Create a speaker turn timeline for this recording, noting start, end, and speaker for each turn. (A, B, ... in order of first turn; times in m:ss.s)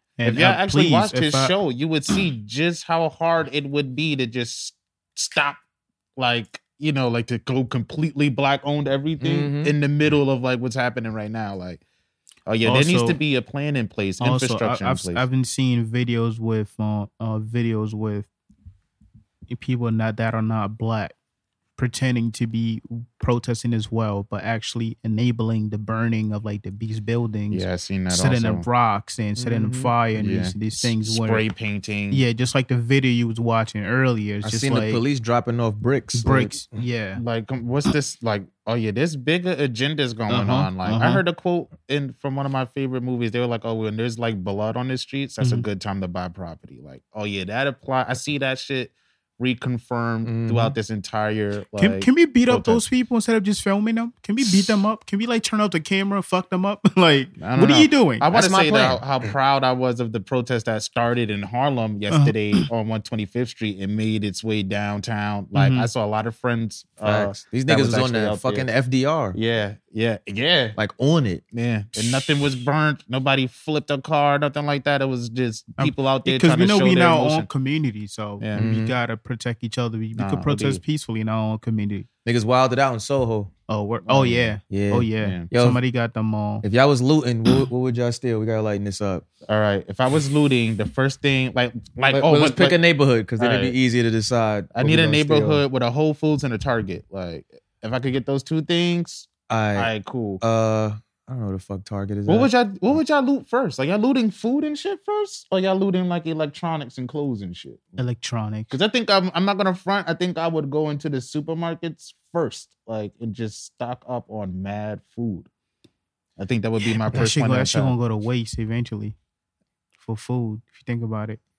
0:00.2-0:01.5 A
0:00.2-0:05.6 B
0:06.2-0:11.8 B
0:09.2-0:09.8 C
0:12.5-0:15.2 B
0:12.6-0:13.2 A
0:14.2-0:18.3 A
0:19.5-0:21.1 A
0:21.8-0:31.5 A
0:27.5-0:28.7 B
0:29.4-0:29.9 C
0:30.2-0:32.2 B
0:32.1-0:35.0 A
0:34.4-0:36.6 C
0:36.2-0:37.2 A
0:37.2-0:52.8 B
0:40.3-0:41.2 A
0:45.4-0:45.7 A
0:50.2-0:50.8 C
0:51.8-0:58.3 A
0:54.4-0:54.7 B
0:57.4-1:08.7 B
0:58.3-0:59.0 C
1:02.1-1:02.6 A
1:05.5-1:05.9 A
1:07.0-1:09.4 C
1:09.3-1:10.8 B
1:10.8-1:11.4 C
1:11.5-1:17.5 B
1:15.8-1:22.1 A
1:18.4-1:18.7 B
1:18.6-1:19.0 C
1:20.2-1:20.8 B
1:22.2-1:23.5 C
1:23.7-1:26.6 A
1:24.1-1:24.5 B
1:24.2-1:25.8 C
1:25.2-1:25.5 B
1:26.6-1:29.3 C
1:29.5-1:32.8 B
1:32.1-1:35.6 C
1:33.4-1:33.8 B
1:34.7-1:40.4 B
1:39.5-1:42.5 C
1:42.3-1:47.9 B
1:48.0-1:48.8 A
1:48.7-1:55.5 B
1:56.4-1:58.0 B
1:57.0-1:59.2 A
2:00.0-2:01.4 A